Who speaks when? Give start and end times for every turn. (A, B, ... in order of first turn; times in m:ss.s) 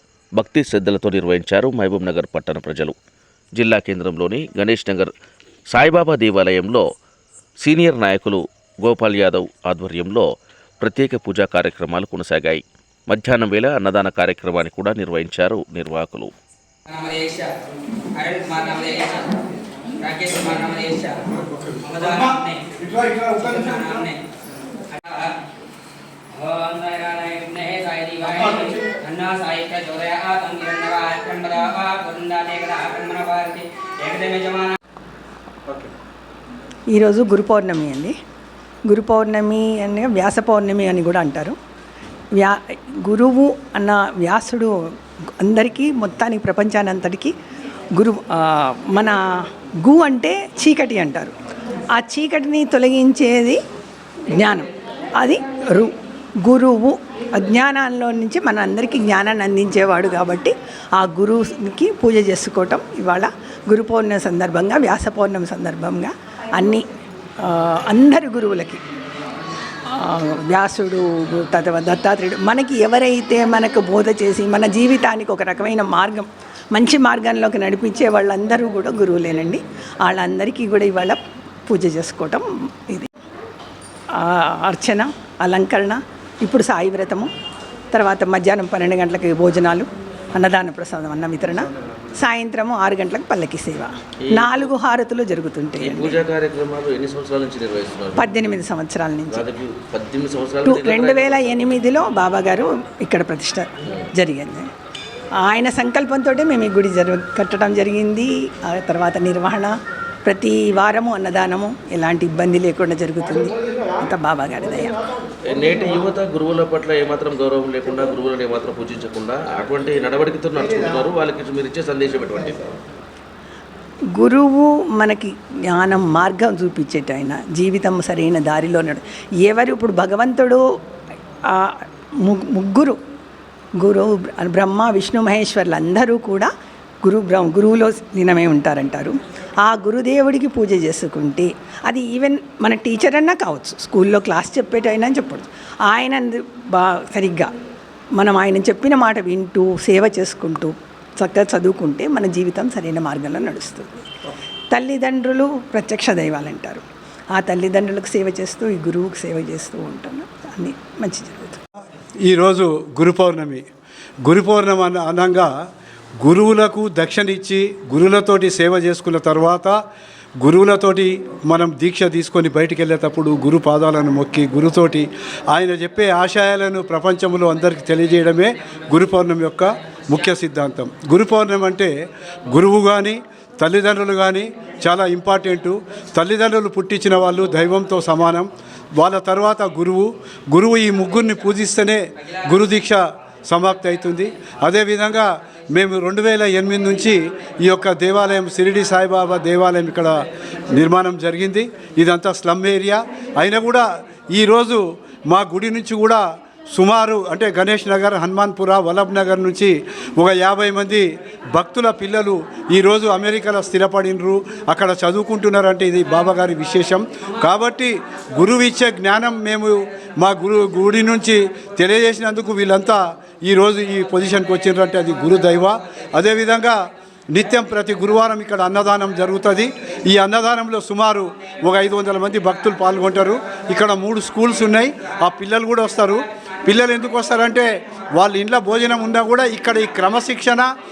0:00.4-0:03.0 A
0:03.6-0:05.1 A
0:05.7-0:06.8 A
0:07.6-0:10.3 A
0:10.8-0:16.3 A
0:16.9-0:17.5 B
0:18.1-0:19.4 B
0:20.0-0:21.2 B
0:21.8-0:24.2 B
0:24.9-0:25.3 B
0:26.3-0:34.8 B
0:36.9-0:38.2 C
0:38.9-0:41.6 C
0:42.3-0:44.7 C
0:45.4-0:47.3 C
0:48.0-0:51.4 C
0:52.0-0:53.6 C
0:54.3-1:06.8 C
1:07.4-1:08.8 C
1:09.9-1:23.1 C
1:24.1-1:27.3 C
1:27.9-1:36.2 C
1:34.2-1:34.7 A
1:35.8-1:38.4 A
1:38.2-1:39.4 C
1:39.3-1:41.6 A
1:40.6-1:44.7 C
1:45.4-1:55.0 C
1:55.5-2:02.7 A
2:04.1-2:10.6 C
2:11.4-2:13.0 C
2:13.8-2:16.5 C
2:17.0-2:27.5 C
2:28.2-2:34.1 C
2:34.7-2:41.6 C
2:42.3-2:43.6 D
2:44.2-2:45.5 D
2:46.2-2:49.8 D
2:50.4-3:01.9 D
3:02.4-4:00.7 D